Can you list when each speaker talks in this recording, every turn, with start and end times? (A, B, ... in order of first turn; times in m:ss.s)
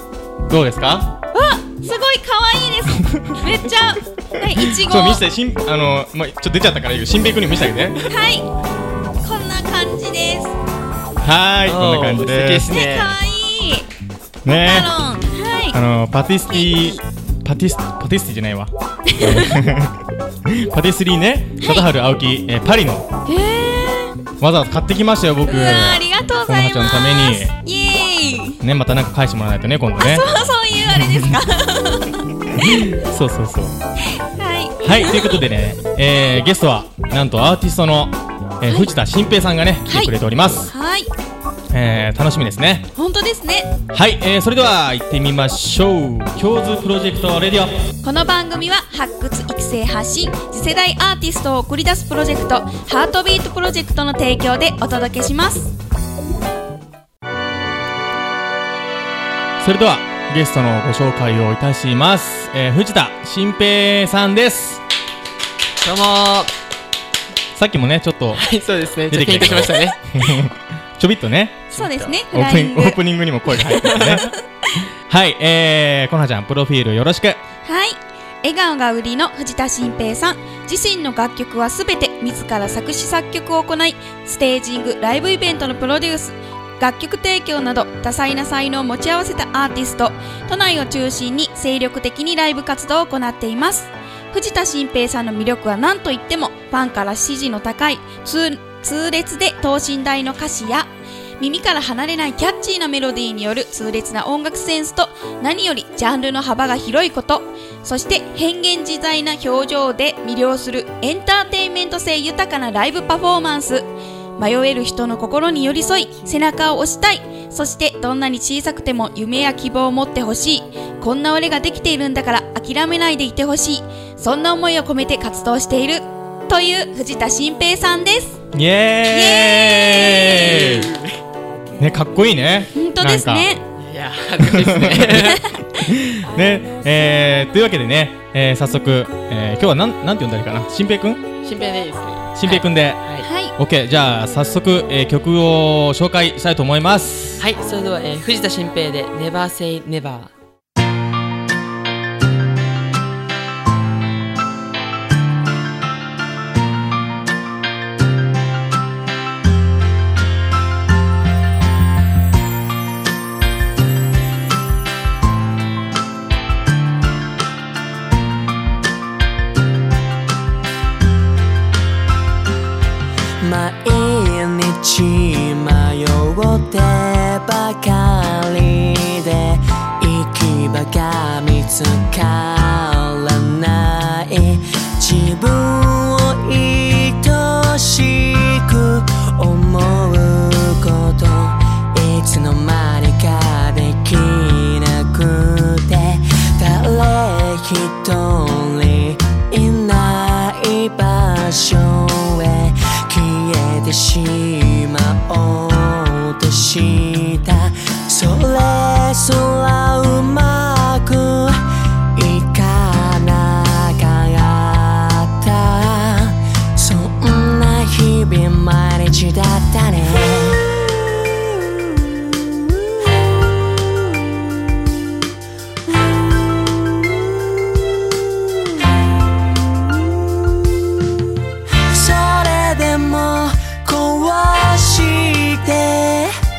0:00.5-0:01.1 A
0:01.3-0:05.2 B
0:03.0-0:03.4 A
0:04.4-0:08.0 A
0:08.0-0:08.5 B
0:09.2-0:10.5 B
0:11.2-0:12.7 A
0:11.6-0:13.2 C
0:12.7-0:13.9 B
0:14.4-0:14.9 A
0:14.5-0:15.8 B
0:15.7-0:23.1 A
0:16.5-0:17.0 B
0:19.1-0:19.5 B
0:21.6-0:21.9 B
0:23.3-0:24.2 B
0:24.4-0:27.5 A
0:25.5-0:28.6 B
0:28.6-0:30.3 A
0:30.0-0:32.3 B
0:30.8-0:31.4 A
0:32.5-0:33.8 A
0:34.1-0:35.4 B
0:34.8-0:40.7 A
0:38.6-0:38.9 B
0:39.9-0:40.1 B
0:40.7-0:41.1 B
0:41.7-0:42.8 A
0:43.0-0:43.8 B
0:43.9-0:47.8 A
0:48.0-0:55.7 B
0:59.6-1:04.8 A
1:05.8-1:06.5 C
1:07.5-1:08.5 A
1:08.3-1:10.0 C
1:09.1-1:14.3 A
1:11.7-1:13.0 B
1:13.7-1:14.3 B
1:13.8-1:14.1 C
1:15.1-1:17.4 A
1:17.6-1:53.9 B
1:54.4-2:08.4 B
2:08.5-2:10.9 A
2:09.1-2:10.8 B
2:10.5-2:11.1 C
2:11.8-2:13.5 A
2:12.7-2:13.6 B
2:13.8-2:15.4 C
2:14.4-2:21.3 A
2:15.4-2:15.9 B
2:21.4-2:23.3 C
2:22.4-2:23.0 A
2:23.2-2:23.5 B
2:23.6-2:27.4 A
2:27.4-2:30.3 C
2:53.4-3:42.4 D
3:43.2-3:44.2 D
3:45.9-3:47.5 D
3:48.2-3:48.8 D
3:49.6-3:50.7 D
3:51.7-3:56.4 D